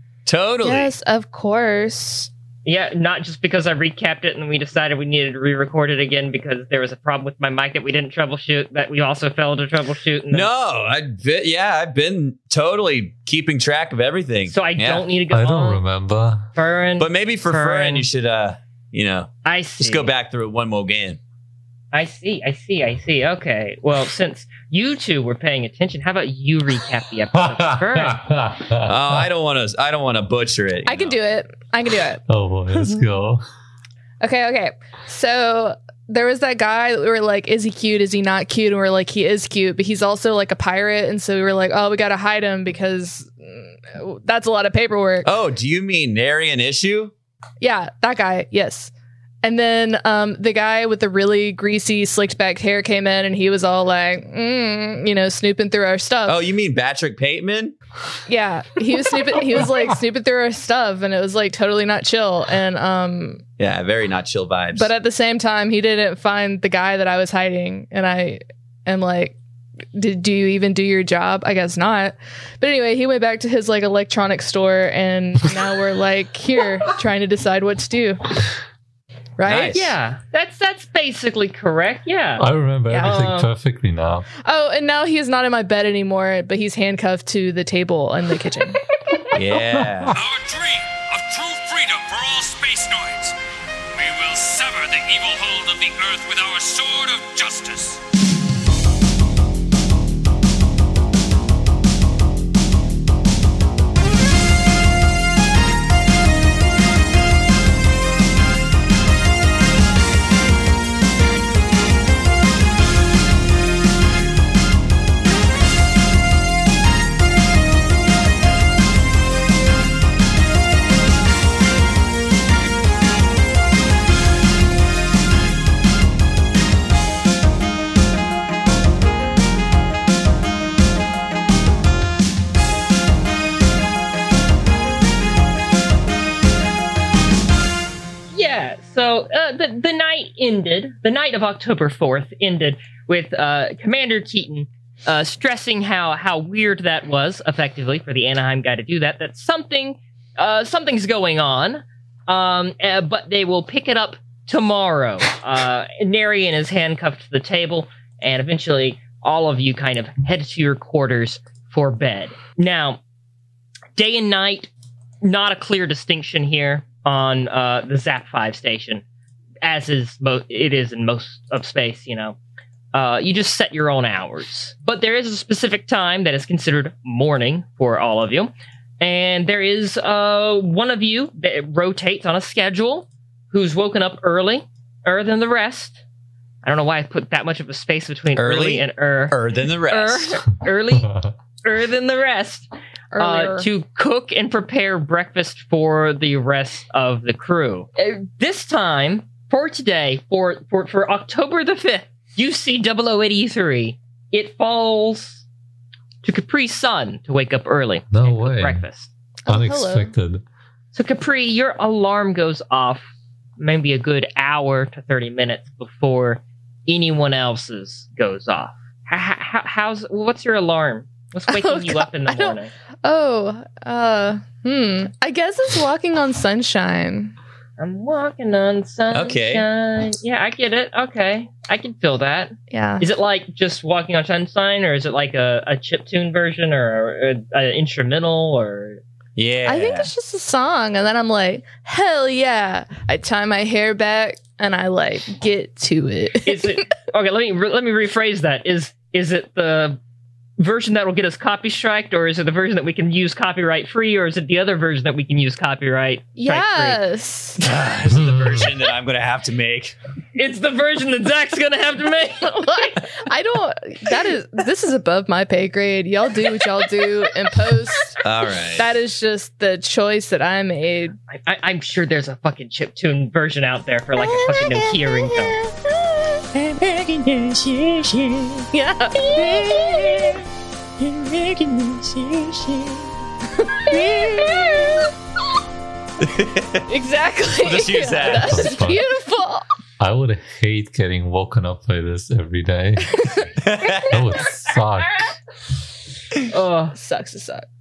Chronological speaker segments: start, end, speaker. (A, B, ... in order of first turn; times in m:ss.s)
0:00.2-0:00.9 A
0:00.6-0:02.3 B
0:02.6-0:10.5 C
0:10.3-0:15.0 A
0:14.5-0:15.8 C
0:15.3-0:16.5 D
0:16.5-0:18.1 C
0:17.0-0:21.2 A
0:19.4-0:20.1 C
0:21.9-0:28.4 C
0:27.6-0:29.3 D
0:28.8-0:31.2 A
0:30.8-0:32.2 B
0:32.3-0:33.4 D
0:34.2-0:45.3 B
0:45.2-0:47.1 A
0:47.6-0:48.9 B
0:49.4-0:56.4 B
0:56.2-0:57.7 A
0:58.3-1:03.4 B
1:03.6-1:04.9 A
1:04.7-1:09.4 B
1:09.9-1:18.2 B
1:19.4-1:19.9 B
1:19.4-1:19.9 A
1:19.7-1:22.4 C
1:22.4-1:24.3 D
1:22.9-1:23.2 B
1:23.0-1:23.5 C
1:24.4-1:28.8 B
1:29.3-1:30.2 A
1:29.8-1:30.1 D
1:30.1-1:33.3 E
1:33.9-1:38.0 E
2:18.3-2:43.0 C
2:44.0-2:44.7 C
2:45.2-2:49.0 C
2:49.6-2:52.4 C
2:52.9-3:06.0 C
3:06.6-3:25.4 C
3:08.3-3:10.4 A
3:13.1-3:13.7 B
3:26.2-3:29.1 C
3:28.1-3:28.8 D
3:29.4-3:30.1 B
3:29.5-3:30.4 D
3:30.9-3:42.7 C
3:41.5-3:47.3 B
3:47.8-3:59.0 C
3:49.1-3:49.6 A
3:52.7-3:53.0 B
3:59.4-4:00.1 A
3:59.6-4:06.7 B
4:06.4-4:10.0 C
4:10.6-4:17.0 C
4:16.4-4:17.6 B
4:17.6-4:20.0 A
4:20.3-4:22.9 C
4:22.4-4:28.1 B
4:28.2-4:28.9 A
4:28.8-4:31.1 B
4:31.3-4:35.6 C
4:34.2-4:36.4 B
4:36.5-4:40.4 C
4:38.7-4:40.4 B
4:41.0-4:43.1 C
4:43.6-4:45.0 B
4:43.9-4:45.0 C
4:46.2-4:46.8 A
4:46.9-4:49.6 B
4:47.6-4:48.8 A
4:48.4-4:49.0 D
4:50.0-4:53.2 D
4:53.6-4:54.2 A
4:54.0-4:55.2 D
4:56.5-4:57.0 C
4:56.9-4:57.6 B